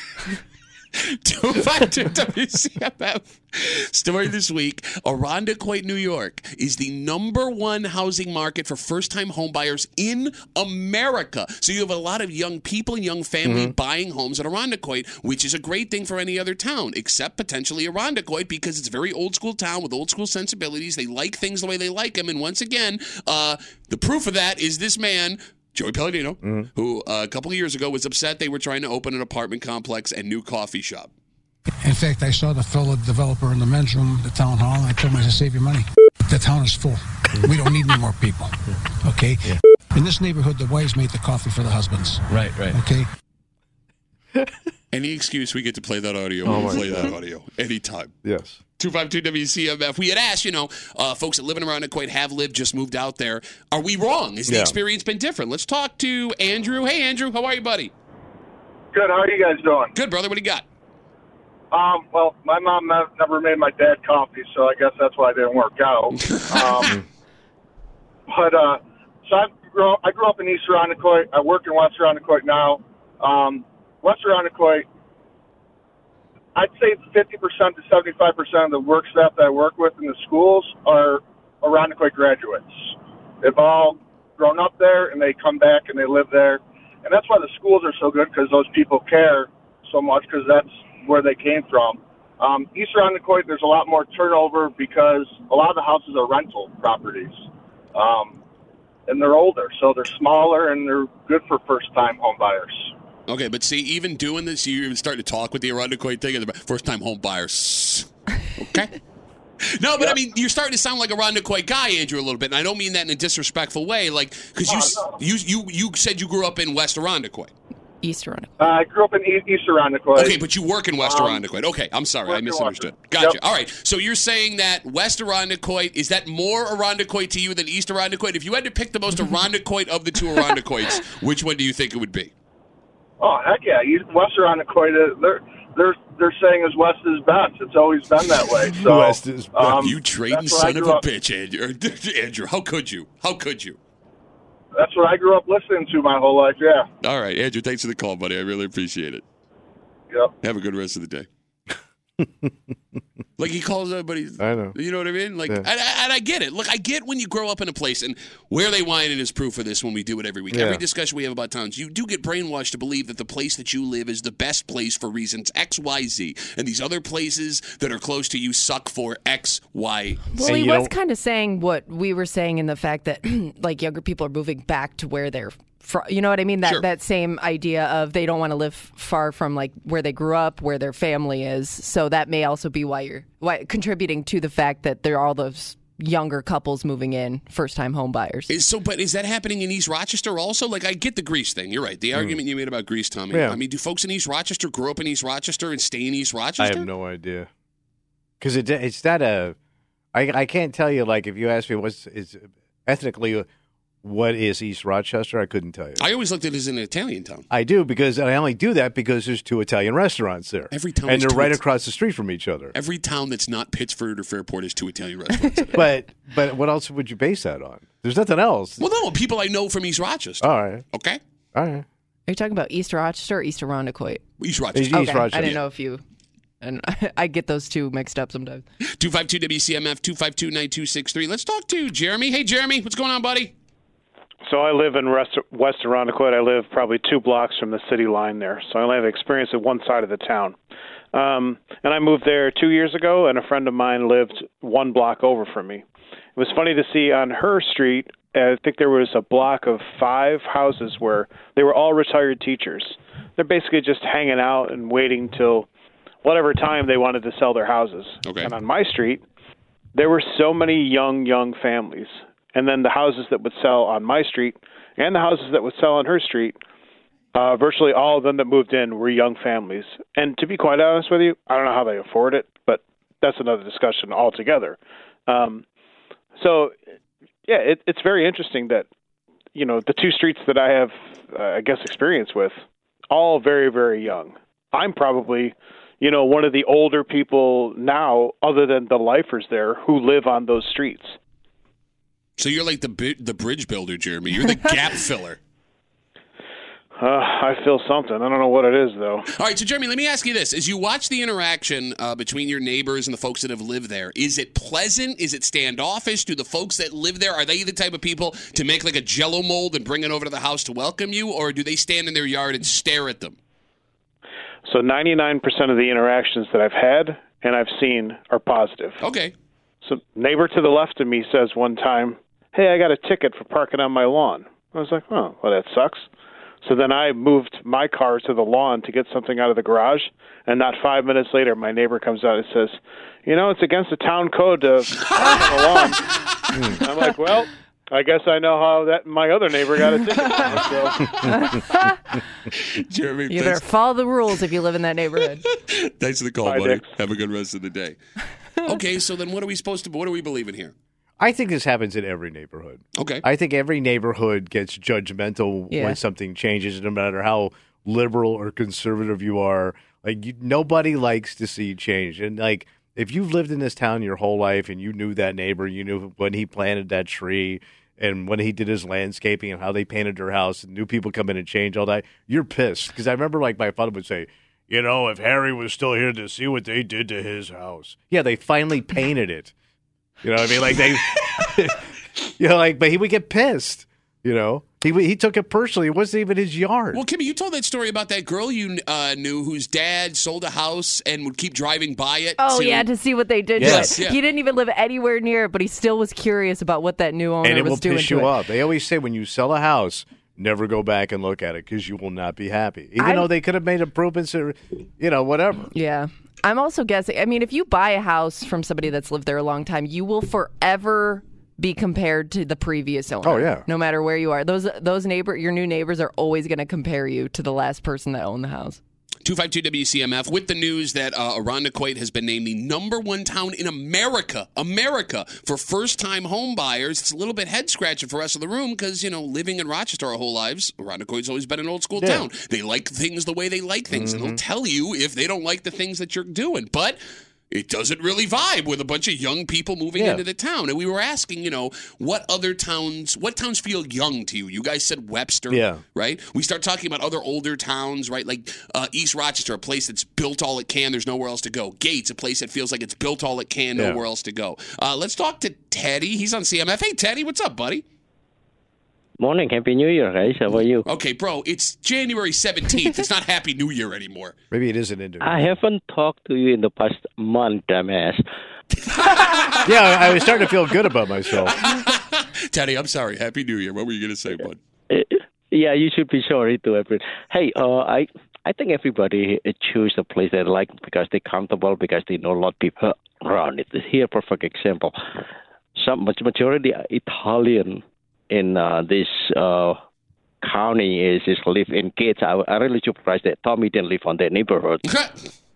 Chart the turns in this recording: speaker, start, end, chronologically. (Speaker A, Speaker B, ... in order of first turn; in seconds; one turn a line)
Speaker A: 0.9-31.1
Speaker B: 13.4-13.7
Speaker B: 26.4-26.7
Speaker C: 31.8-43.1
Speaker D: 42.3-42.7
Speaker A: 44.9-48.1
Speaker B: 46.4-47.1
Speaker B: 48.2-48.6
Speaker A: 48.8-57.9
Speaker B: 54.5-54.7
Speaker E: 58.9-59.9
Speaker A: 59.9-60.6
Speaker E: 61.7-67.0
Speaker A: 66.2-66.9
Speaker E: 68.3-74.8
Speaker E: 76.5-98.4
Speaker E: 99.1-102.9
Speaker A: 103.3-108.9
Speaker A: 109.6-117.5
Speaker E: 114.7-115.0
Speaker F: 118.0-118.6
Speaker E: 118.6-120.4
Speaker A: 120.1-132.3
Speaker E: 121.0-121.4
Speaker E: 122.3-123.3
Speaker E: 133.2-141.0
Speaker B: 138.7-139.8
Speaker A: 139.6-143.8
Speaker E: 144.7-146.9
Speaker A: 147.0-149.2
Speaker A: 150.4-151.3
Speaker B: 152.2-152.5
Speaker A: 153.4-170.4
Speaker B: 154.4-154.8
Speaker B: 160.5-160.8
Speaker F: 170.3-188.5
Speaker B: 170.4-170.9
Speaker A: 188.5-196.9
Speaker B: 193.3-193.6
Speaker B: 196.6-197.5
Speaker B: 198.4-199.6
Speaker B: 200.1-203.5
Speaker B: 204.0-206.0
Speaker A: 206.0-207.5
Speaker B: 207.5-212.7
Speaker A: 210.7-211.6
Speaker A: 212.7-215.9
Speaker B: 215.7-218.8
Speaker A: 218.8-221.2
Speaker B: 220.4-220.8
Speaker B: 221.5-221.8
Speaker F: 222.3-224.2
Speaker A: 224.4-225.6
Speaker B: 224.7-225.6
Speaker F: 224.9-226.0
Speaker F: 226.6-228.6
Speaker A: 228.9-233.5
Speaker G: 234.4-240.6
Speaker G: 241.1-245.8
Speaker G: 246.3-255.7
Speaker G: 256.2-259.2
Speaker A: 258.2-258.5
Speaker G: 259.9-266.6
Speaker G: 267.3-275.6
Speaker G: 276.4-276.8
Speaker G: 277.5-278.9
Speaker G: 279.5-282.6
Speaker G: 283.1-291.1
Speaker A: 292.4-295.4
Speaker G: 297.0-299.3
Speaker A: 299.3-313.4
Speaker G: 314.6-319.0
Speaker A: 319.0-319.3
Speaker G: 319.8-326.1
Speaker G: 326.6-336.1
Speaker B: 336.5-336.8
Speaker G: 336.8-341.1
Speaker B: 341.1-341.4
Speaker F: 341.3-342.0
Speaker A: 342.6-343.6
Speaker F: 343.3-345.4
Speaker A: 345.4-348.0
Speaker G: 346.4-346.8
Speaker A: 348.6-350.7
Speaker B: 351.2-379.5
Speaker A: 352.9-353.2
Speaker F: 355.7-356.0
Speaker B: 380.2-381.9
Speaker B: 382.4-387.0
Speaker A: 386.9-392.9
Speaker F: 392.4-398.3
Speaker A: 393.6-394.2
Speaker B: 393.6-394.0
Speaker B: 397.4-405.7
Speaker F: 403.0-403.3
Speaker F: 405.7-418.8
Speaker B: 413.2-413.6
Speaker A: 419.2-457.8
Speaker B: 432.0-432.2
Speaker B: 433.9-434.4
Speaker B: 439.9-440.2
Speaker B: 445.5-445.8
Speaker B: 453.8-454.0
Speaker D: 459.2-460.9
Speaker A: 460.8-464.3
Speaker B: 464.5-465.3
Speaker D: 465.2-468.2
Speaker A: 468.9-470.4
Speaker B: 469.6-471.8
Speaker A: 471.5-474.6
Speaker D: 474.9-484.9
Speaker D: 485.8-489.8
Speaker D: 490.4-494.8
Speaker A: 494.8-495.3